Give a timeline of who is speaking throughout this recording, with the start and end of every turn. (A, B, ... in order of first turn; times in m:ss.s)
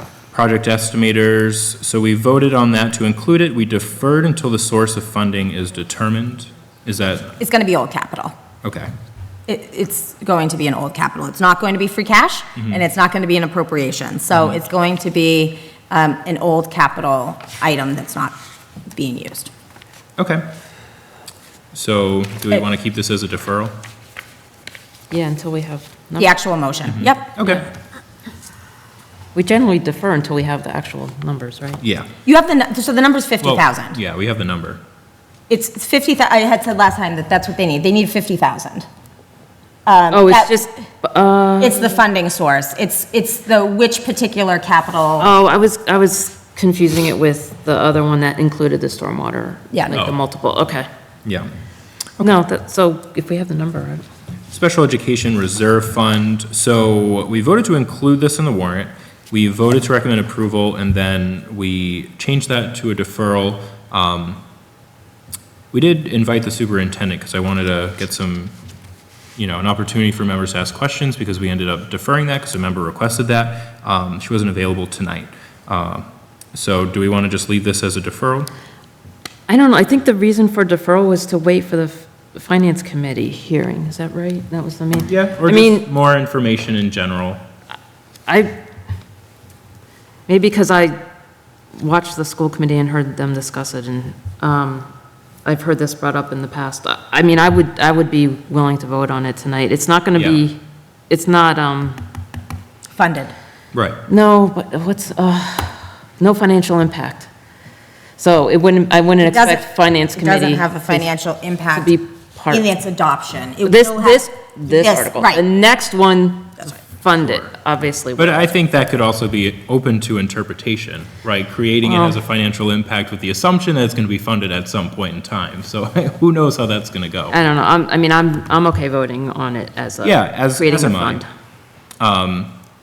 0:00.3-0:07.3 A
0:07.4-0:08.3 B
0:08.6-0:08.9 A
0:09.5-0:18.4 B
0:18.9-0:19.5 B
0:20.2-0:20.5 A
0:21.7-0:23.7 A
0:25.1-0:26.4 C
0:26.2-0:27.3 B
0:26.9-0:27.6 A
0:29.4-0:31.8 C
0:31.8-0:32.1 A
0:32.2-0:34.0 B
0:33.4-0:34.8 A
0:35.5-0:38.9 B
0:39.9-0:40.6 B
0:40.1-0:41.9 C
0:41.6-0:45.3 B
0:45.2-0:50.9 C
0:52.2-0:54.0 C
0:54.5-1:04.4 A
1:05.7-1:08.5 A
1:09.4-1:18.5 A
1:19.5-1:25.9 C
1:25.1-1:27.4 A
1:28.3-1:28.5 C
1:30.3-1:31.0 C
1:31.7-1:34.9 C
1:35.4-1:40.6 C
1:40.2-1:40.4 A
1:41.1-1:42.0 C
1:43.0-1:43.3 B
1:43.7-1:44.0 A
1:44.1-1:47.3 C
1:48.2-1:51.1 C
1:49.2-1:51.9 B
1:51.7-1:52.7 C
1:52.5-1:55.4 B
1:53.6-1:58.5 C
1:57.2-1:57.5 A
1:58.2-2:07.4 A
2:01.8-2:02.2 C
2:07.3-2:11.3 C
2:10.0-2:11.2 A
2:12.0-2:12.5 A